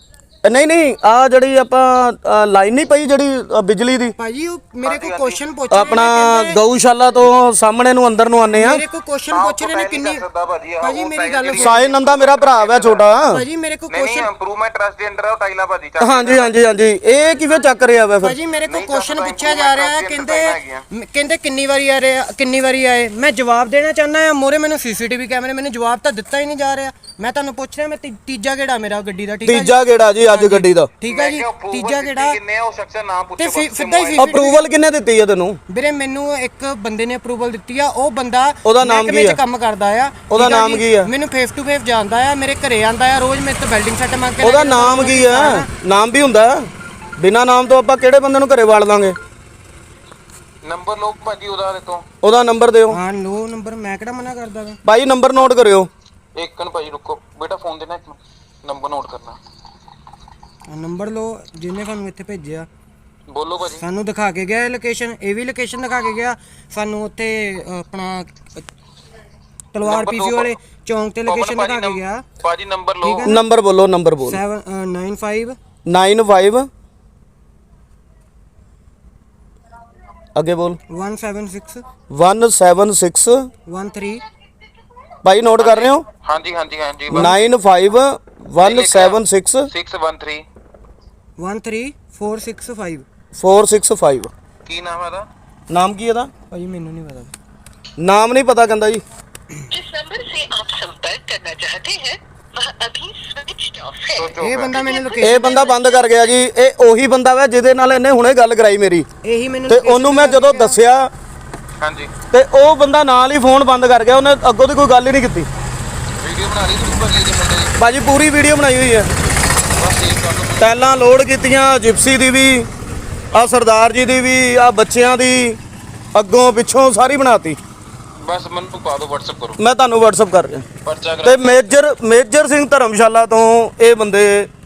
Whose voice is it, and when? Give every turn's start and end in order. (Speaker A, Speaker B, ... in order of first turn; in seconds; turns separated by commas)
Speaker A: 0.4-4.2, Speaker B: 4.2-6.6, Speaker C: 4.8-5.4, Speaker A: 5.7-8.8, Speaker B: 8.5-10.2, Speaker C: 9.3-13.1, Speaker B: 10.8-12.0, Speaker A: 11.5-13.4, Speaker B: 13.2-14.3, Speaker C: 13.9-16.5, Speaker A: 16.0-18.4, Speaker B: 18.2-32.4, Speaker C: 18.7-20.8, Speaker A: 29.4-30.9, Speaker C: 31.1-34.3, Speaker B: 33.4-34.7, Speaker A: 34.2-35.6, Speaker B: 35.7-45.7, Speaker A: 38.6-39.4, Speaker A: 40.3-41.1, Speaker A: 44.4-46.7, Speaker A: 47.2-49.2, Speaker C: 50.6-52.1, Speaker A: 52.2-53.0, Speaker B: 52.9-54.8, Speaker A: 54.9-55.9, Speaker C: 56.4-59.4, Speaker B: 60.7-62.7, Speaker C: 63.3-63.8, Speaker B: 63.6-68.6, Speaker B: 69.7-72.2, Speaker C: 69.8-70.5, Speaker C: 71.3-73.3, Speaker B: 73.0-73.5, Speaker A: 73.2-74.4, Speaker B: 74.2-75.6, Speaker A: 75.9-76.7, Speaker A: 80.3-80.8, Speaker B: 80.9-81.8, Speaker A: 82.1-83.5, Speaker B: 83.7-84.2, Speaker A: 85.2-86.0, Speaker C: 85.6-87.4, Speaker A: 87.1-89.7, Speaker C: 88.6-90.4, Speaker B: 91.4-93.1, Speaker A: 93.3-94.3, Speaker C: 94.7-95.3, Speaker A: 95.7-96.3, Speaker B: 96.5-97.3, Speaker A: 98.0-99.0, Speaker D: 99.7-104.1, Speaker C: 104.1-105.0, Speaker B: 104.4-105.5, Speaker A: 105.2-109.1, Speaker D: 105.2-105.7, Speaker B: 109.2-110.8, Speaker A: 109.7-111.1, Speaker C: 111.8-112.1, Speaker A: 112.3-115.5, Speaker C: 116.2-117.8, Speaker A: 117.8-119.1, Speaker C: 119.8-120.8, Speaker A: 120.6-122.7, Speaker A: 123.3-125.6, Speaker A: 126.2-127.6, Speaker C: 128.2-129.6, Speaker A: 129.6-130.7, Speaker C: 130.8-131.6, Speaker A: 131.2-134.5